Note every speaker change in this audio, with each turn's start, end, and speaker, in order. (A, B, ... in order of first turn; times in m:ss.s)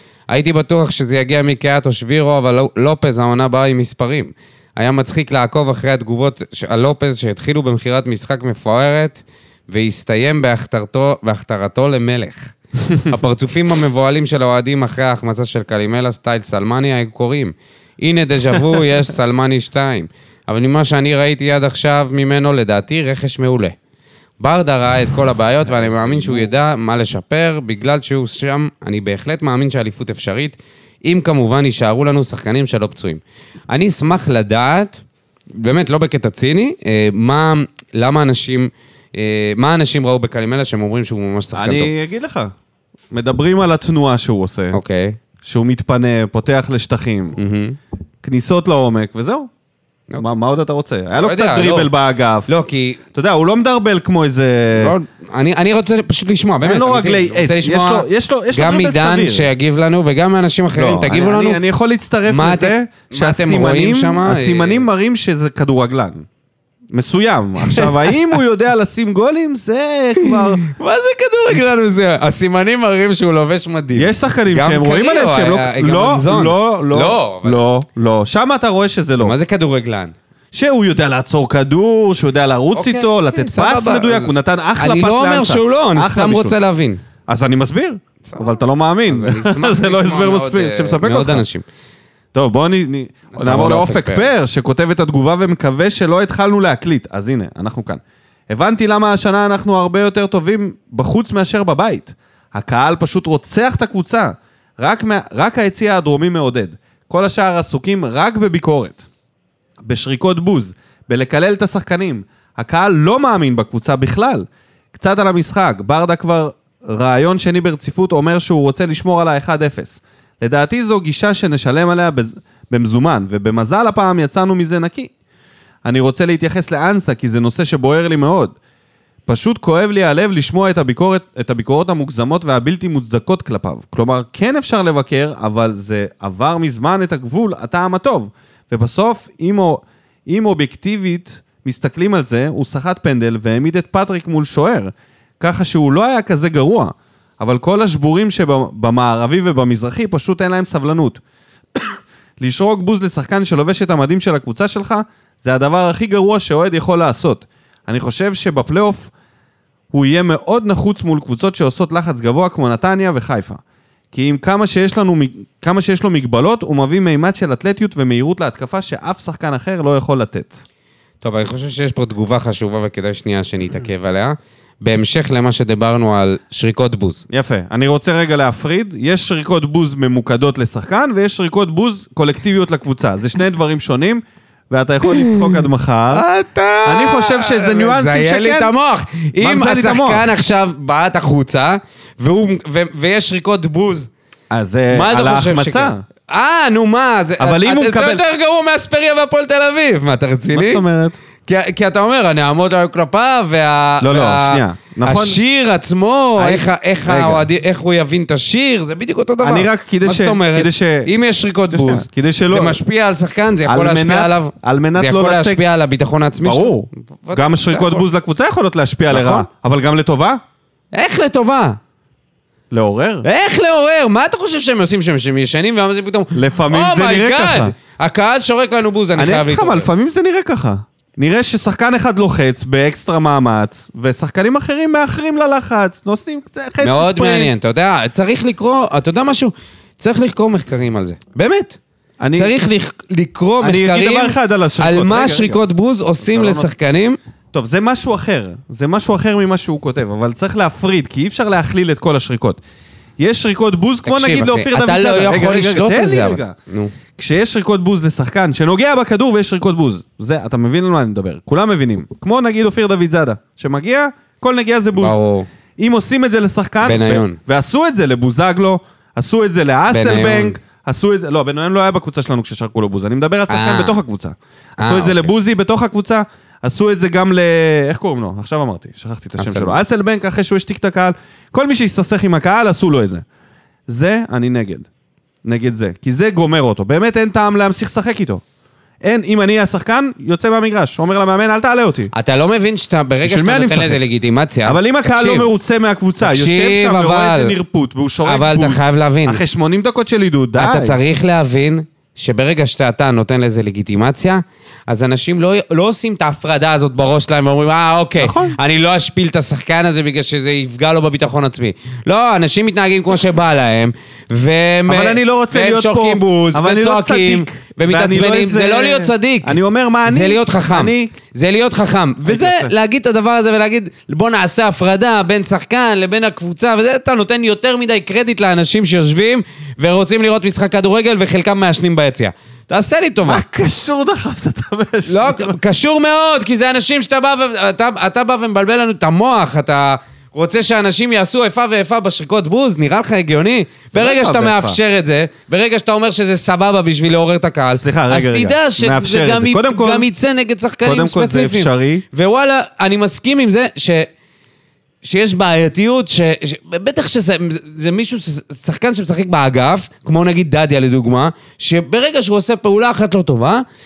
0:00.3-0:23.8 A
0:24.4-0:35.0 A
0:25.7-0:26.5 B
0:35.5-0:41.9 A
0:41.5-0:42.5 B
0:43.1-0:44.8 B
0:44.7-0:45.2 A
0:45.4-0:47.4 B
0:47.4-0:47.8 A
0:48.2-0:49.5 B
0:50.2-0:52.5 B
0:51.1-0:51.9 A
0:52.5-0:53.0 A
0:53.1-0:54.9 B
0:54.8-1:01.6 A
0:56.6-0:59.5 B
1:00.7-1:06.2 B
1:02.3-1:04.8 A
1:06.9-1:10.6 B
1:07.6-1:08.1 A
1:10.2-1:17.6 A
1:14.0-1:19.4 B
1:19.2-1:20.1 A
1:20.5-1:26.6 B
1:22.7-1:27.0 A
1:27.3-1:31.4 B
1:29.1-1:31.6 A
1:32.3-1:49.1 B
1:33.3-1:34.3 A
1:49.8-2:05.1 B
2:05.8-2:08.6 B
2:09.3-2:31.2 B
2:31.7-2:39.1 B
2:39.9-2:43.6 B
2:44.1-2:50.6 B
2:51.2-2:57.2 A
2:57.3-3:06.2 B
3:05.1-3:14.1 A
3:06.8-3:08.7 B
3:09.4-3:10.2 B
3:14.5-3:16.0 B
3:14.9-3:20.8 A
3:17.4-3:18.2 B
3:20.5-3:21.2 B
3:21.4-3:38.0 A
3:24.0-3:25.4 B
3:26.4-3:27.4 B
3:29.4-3:31.1 B
3:31.7-3:32.8 B
3:33.6-3:35.6 B
3:36.4-3:40.4 B
3:39.1-3:39.5 A
3:40.9-3:41.8 A
3:42.7-3:43.2 B
3:43.2-3:49.9 A
3:46.3-3:47.7 B
3:49.2-3:57.5 B
3:56.8-4:01.8 A
4:02.2-4:02.5 B
4:02.3-4:07.2 A
4:03.6-4:05.6 B
4:06.2-4:06.7 B
4:07.5-4:12.6 B
4:13.2-4:16.5 B
4:14.0-4:16.9 A
4:17.2-4:25.2 B
4:25.0-4:25.5 A
4:25.8-4:43.2 B
4:26.8-4:27.4 A
4:29.9-4:30.6 A
4:33.5-4:34.0 A
4:34.8-4:35.3 A
4:39.4-4:39.8 A
4:43.9-4:44.9 B
4:45.4-4:48.4 B
4:49.0-4:52.1 B
4:52.1-4:55.5 A
4:53.2-4:54.0 B
4:54.6-5:01.0 B
4:56.2-4:57.6 A
4:58.2-4:59.4 A
5:00.6-5:33.4 A
5:08.2-5:08.6 B
5:14.9-5:21.2 B
5:22.2-5:22.7 B
5:33.2-5:35.6 B
5:35.1-5:54.1 A
5:43.9-5:44.8 B
5:47.7-5:50.1 B
5:50.8-5:52.0 B
5:55.0-6:03.6 A